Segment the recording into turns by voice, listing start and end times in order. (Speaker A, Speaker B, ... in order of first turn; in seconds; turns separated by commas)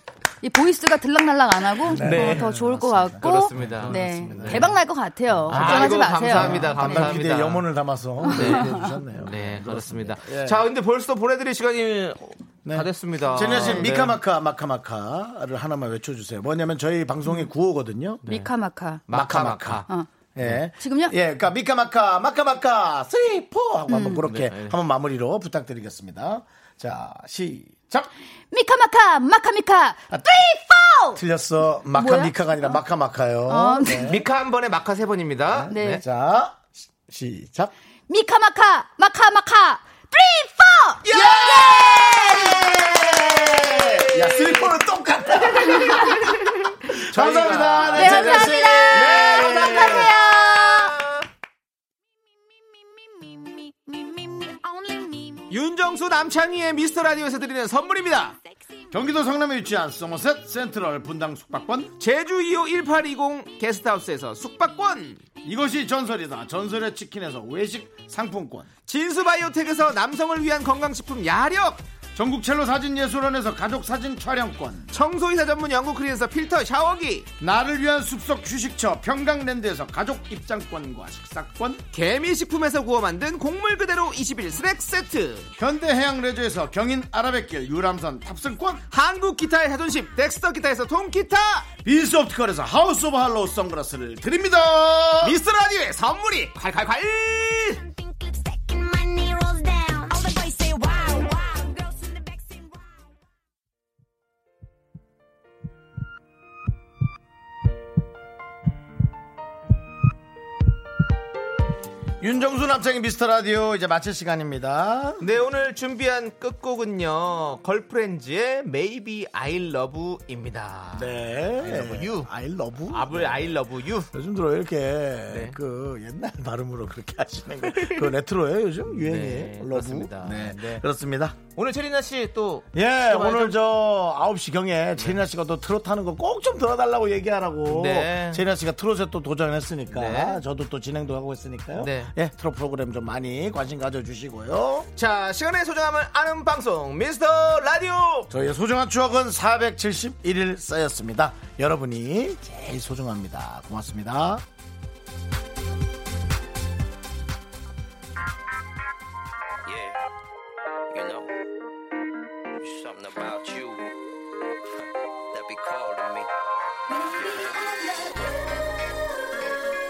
Speaker A: 0.4-7.2, Speaker B: 1.8-4.8, Speaker C: 2.0-4.7, Speaker C: 5.5-7.7, Speaker B: 5.5-10.6, Speaker A: 8.2-9.0, Speaker C: 8.2-14.2, Speaker B: 12.6-18.2, Speaker A: 13.4-13.9, Speaker C: 18.2-18.5, Speaker A: 18.2-19.1, Speaker C: 19.1-19.9, Speaker B: 19.1-19.8, Speaker B: 20.3-28.1, Speaker A: 20.7-21.1, Speaker A: 23.9-24.3, Speaker C: 24.2-24.7, Speaker A: 28.5-31.2, Speaker B: 31.1-34.2, Speaker A: 31.9-32.8, Speaker A: 33.5-34.2, Speaker C: 34.0-36.0, Speaker B: 35.5-37.7, Speaker A: 35.7-36.0, Speaker A: 38.1-42.7, Speaker B: 41.0-50.1, Speaker C: 44.0-44.7, Speaker C: 46.2-51.2, Speaker A: 47.9-49.0, Speaker D: 53.1-55.5, Speaker C: 55.5-58.4, Speaker B: 58.9-61.9, Speaker C: 62.0-65.2, Speaker B: 65.4-68.7, Speaker C: 68.9-71.8, Speaker B: 72.1-74.9, Speaker C: 74.9-77.3, Speaker B: 77.4-81.8, Speaker C: 81.9-85.5, Speaker B: 85.6-88.8, Speaker C: 88.9-91.7, Speaker B: 91.8-95.4, Speaker C: 95.2-97.8, Speaker D: 97.6-103.1, Speaker B: 112.2-115.2, Speaker C: 115.2-122.3, Speaker B: 120.9-123.6, Speaker C: 122.9-124.1, Speaker B: 124.1-131.4, Speaker C: 125.3-125.5, Speaker C: 127.7-128.1, Speaker C: 128.9-130.8, Speaker C: 131.6-133.6, Speaker B: 132.7-144.9, Speaker C: 137.7-138.4, Speaker C: 139.9-140.4, Speaker C: 141.8-142.1, Speaker C: 144.9-148.3, Speaker B: 148.3-154.4, Speaker E: 159.7-160.0, Speaker E: 160.9-161.3, Speaker E: 162.6-163.9, Speaker E: 165.3-166.3, Speaker D: 166.9-168.8, Speaker E: 167.2-167.5